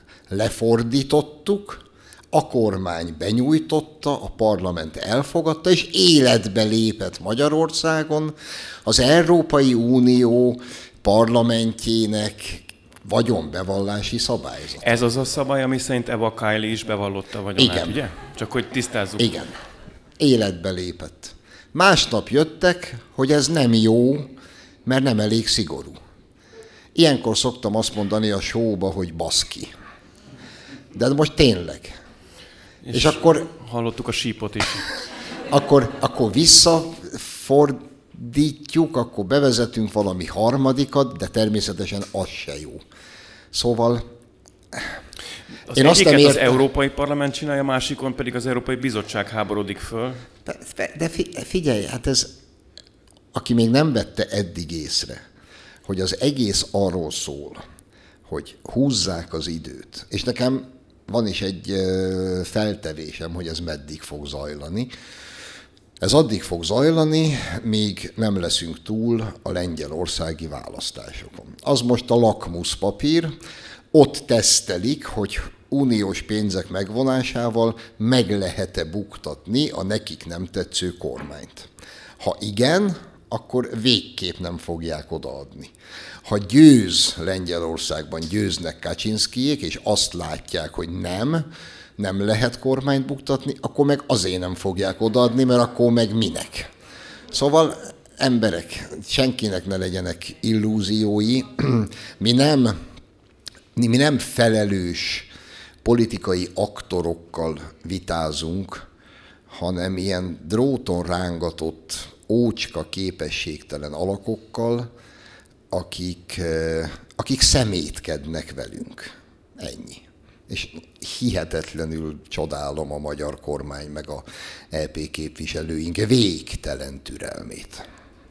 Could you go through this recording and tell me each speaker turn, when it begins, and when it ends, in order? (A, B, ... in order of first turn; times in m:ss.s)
0:00.3-0:15.0 A
0:14.8-0:19.3 B
0:17.6-0:18.0 A
0:19.2-0:19.5 A
0:20.2-0:24.3 A
0:24.8-0:26.0 A
0:26.9-0:29.7 A
0:30.9-0:32.0 A
0:32.8-0:34.9 B
0:32.9-0:33.5 A
0:35.5-0:42.8 A
0:43.5-0:44.0 A
0:45.7-0:50.2 B
0:45.7-0:46.6 A
0:50.4-0:52.3 A
0:53.3-0:55.2 A
0:55.8-0:57.6 A
0:58.3-1:04.9 A
1:06.0-1:13.3 A
1:13.9-1:21.7 A
1:22.2-1:25.7 A
1:26.2-1:31.4 A
1:32.0-1:36.7 A
1:37.3-1:42.8 A
1:43.7-1:45.3 A
1:45.8-1:48.8 A
1:49.5-1:54.9 A
1:55.7-2:07.8 A